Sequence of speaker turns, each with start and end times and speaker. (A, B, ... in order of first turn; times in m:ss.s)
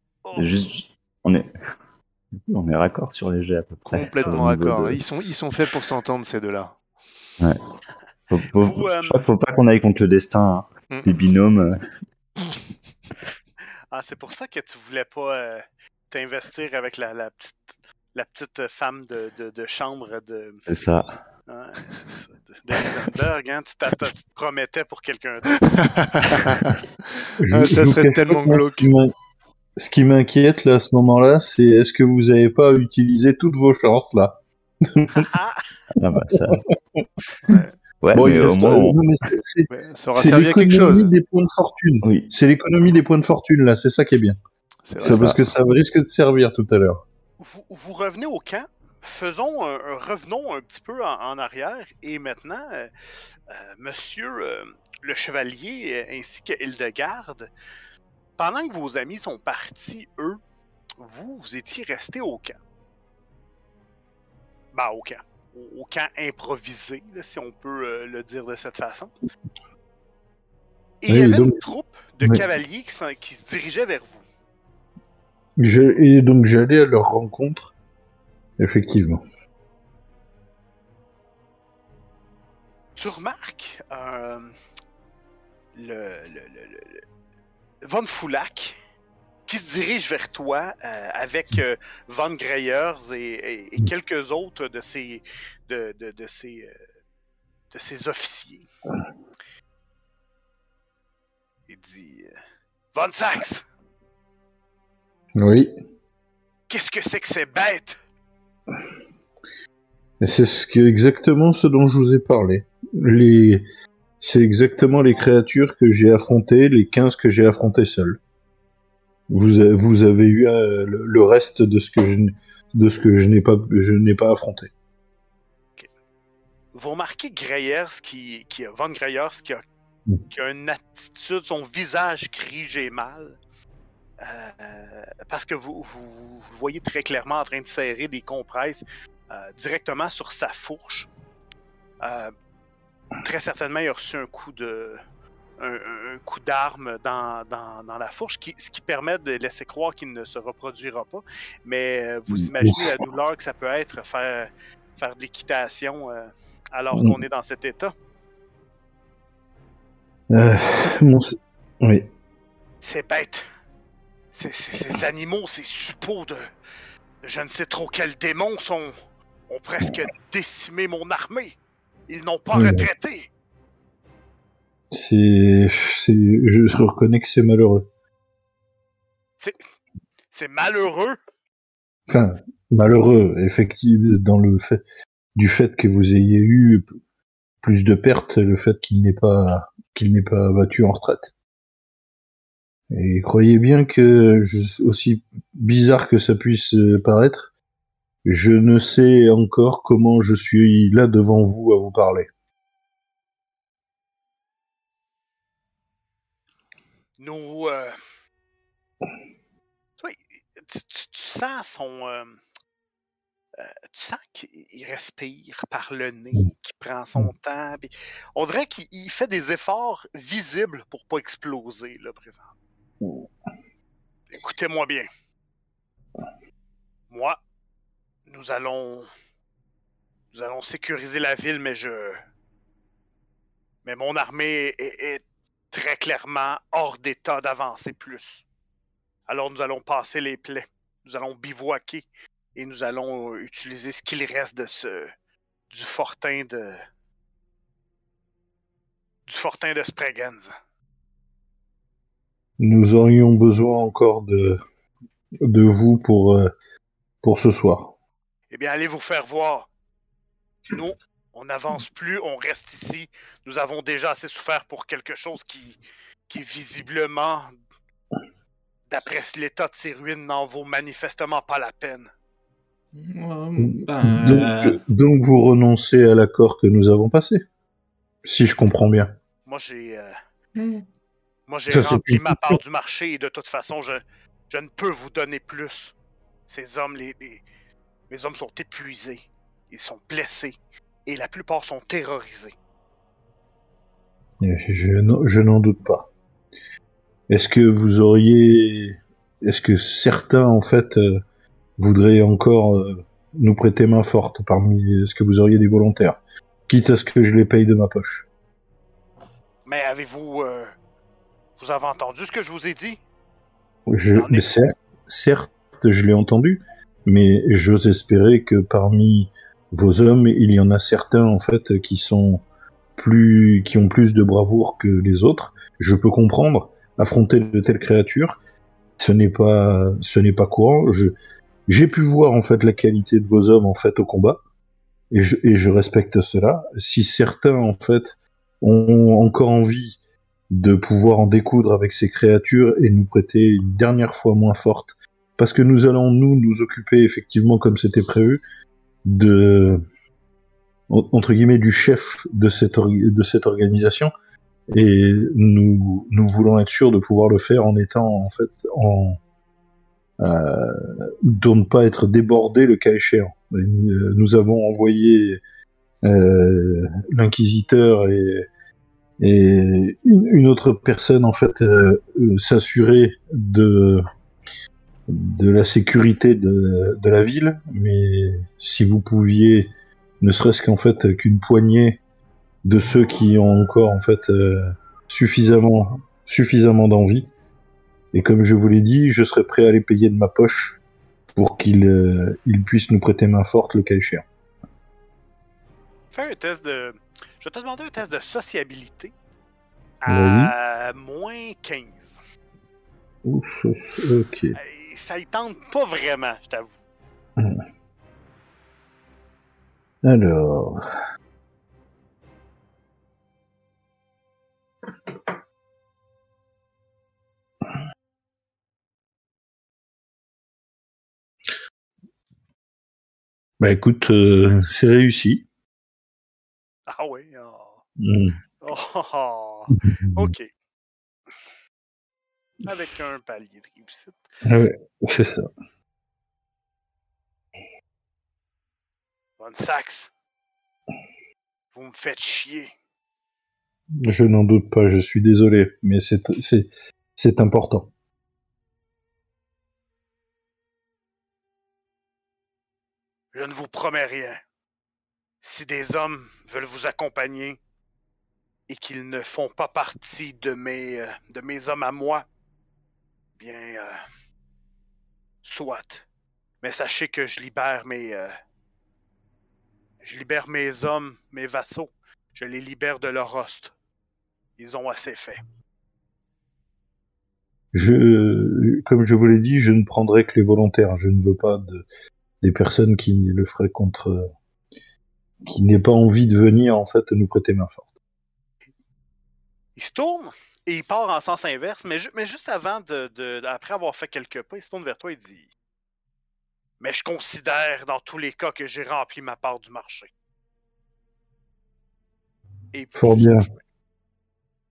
0:00.2-0:00.5 A
0:00.4-0:01.5 B
0:02.5-0:05.0 B
0:03.9-0:06.8 C
0:04.2-0:04.4 A
0:08.3-0:11.8 B
0:08.6-0:09.2 A
0:13.9-0:20.6 A
0:20.6-0:21.2 B
0:21.5-0:25.8 A
0:25.7-0:26.7 C
0:27.4-0:29.1 D
0:27.5-0:28.9 C
0:29.8-0:35.3 D
0:35.2-0:35.7 A
0:36.0-0:36.6 B
0:36.3-0:37.0 D
0:37.5-0:37.8 C
0:38.0-0:39.0 B
0:38.2-0:44.4 D
0:39.7-0:41.1 C
0:42.0-0:42.3 B
0:44.9-0:45.4 C
0:45.0-0:47.0 D
0:45.0-0:45.4 B
0:47.4-0:52.9 A
0:53.5-0:57.5 A
0:58.4-1:00.4 A
1:01.0-1:02.6 A
1:04.7-1:09.2 A
1:11.0-1:14.2 A
1:11.1-1:11.6 D
1:15.6-1:17.7 D
1:18.6-1:19.2 D
1:23.0-1:24.6 A
1:25.8-1:27.0 A
1:27.8-1:28.8 A
1:29.5-1:36.8 A
1:37.7-1:38.7 A
1:41.7-1:42.3 A
1:42.9-1:43.6 A
1:45.4-1:45.7 D
1:46.7-1:48.0 A
1:50.2-1:53.6 D
1:54.2-1:58.2 D
1:59.3-2:04.7 D
2:06.8-2:09.6 A
2:10.3-2:13.4 A
2:14.2-2:21.1 A
2:22.0-2:22.3 A
2:23.2-2:25.0 A
2:25.6-2:37.9 A
2:32.6-2:32.9 D
2:36.9-2:37.2 D
2:40.3-2:42.1 D
2:42.8-2:43.4 A
2:44.3-2:46.4 A
2:47.2-2:48.9 A
2:49.5-2:51.6 A
2:52.1-2:53.3 A
2:52.5-2:52.9 D
2:54.9-2:57.9 D
3:00.3-3:01.2 A
3:02.1-3:04.8 D
3:05.4-3:06.8 D
3:07.6-3:11.3 D
3:12.9-3:17.5 D
3:18.2-3:22.3 D
3:27.2-3:28.0 A
3:30.0-3:32.4 A
3:33.6-3:42.5 A
3:43.0-3:43.3 D
3:44.3-3:45.1 A
3:47.1-3:47.4 A
3:48.3-3:49.1 A
3:50.3-3:52.2 A
3:53.8-3:58.4 A
3:59.3-4:05.1 A
4:05.7-4:06.8 A
4:09.3-4:10.5 A
4:12.6-4:14.6 D
4:15.4-4:16.5 D
4:17.2-4:17.9 D
4:18.5-4:19.7 A
4:20.7-4:25.8 A
4:26.3-4:27.5 A
4:28.9-4:32.1 A
4:32.9-4:34.8 E
4:33.6-4:37.4 D
4:38.2-4:39.1 D
4:39.5-4:40.2 A
4:40.6-4:40.8 E
4:41.5-4:46.0 A
4:41.7-4:42.6 D
4:46.5-4:47.4 A
4:48.1-4:52.6 A
4:54.4-4:56.1 D
4:57.3-5:01.2 D
5:01.8-5:08.3 D
5:09.7-5:10.7 A
5:11.6-5:13.0 A
5:13.9-5:22.4 D
5:14.1-5:14.4 A
5:23.0-5:28.4 D
5:29.0-5:31.1 D
5:31.7-5:34.4 D
5:35.1-5:40.0 D
5:40.5-5:48.4 D
5:49.0-5:49.8 D
5:50.9-5:54.1 D
5:54.7-5:59.2 D
6:00.2-6:05.4 D
6:06.0-6:08.5 D
6:09.2-6:14.0 D
6:15.1-6:19.7 D
6:20.2-6:22.0 D
6:22.6-6:27.3 D
6:28.1-6:30.8 D
6:31.4-6:34.2 D
6:36.1-6:39.1 A
6:40.0-6:42.2 A
6:40.1-6:40.5 D
6:43.2-6:44.6 D
6:44.6-6:46.7 A
6:47.4-6:47.6 D
6:50.0-6:50.8 D
7:03.6-7:05.4 D
7:06.9-7:07.8 A
7:08.0-7:08.4 D
7:08.6-7:10.5 A
7:12.6-7:14.2 A
7:14.4-7:15.5 D
7:19.4-7:20.1 A
7:21.7-7:22.7 A
7:24.0-7:27.9 D
7:33.3-7:34.4 A
7:35.4-7:37.6 A
7:38.7-7:42.3 A
7:43.4-7:44.0 A
7:45.4-7:46.0 A
7:46.6-7:48.4 A
7:50.0-7:53.7 A
7:54.6-7:55.4 A
7:57.7-8:01.8 D
8:02.4-8:04.3 D
8:05.5-8:07.9 D
8:09.8-8:15.5 A
8:16.8-8:20.1 A
8:22.7-8:23.6 A
8:23.0-8:23.5 D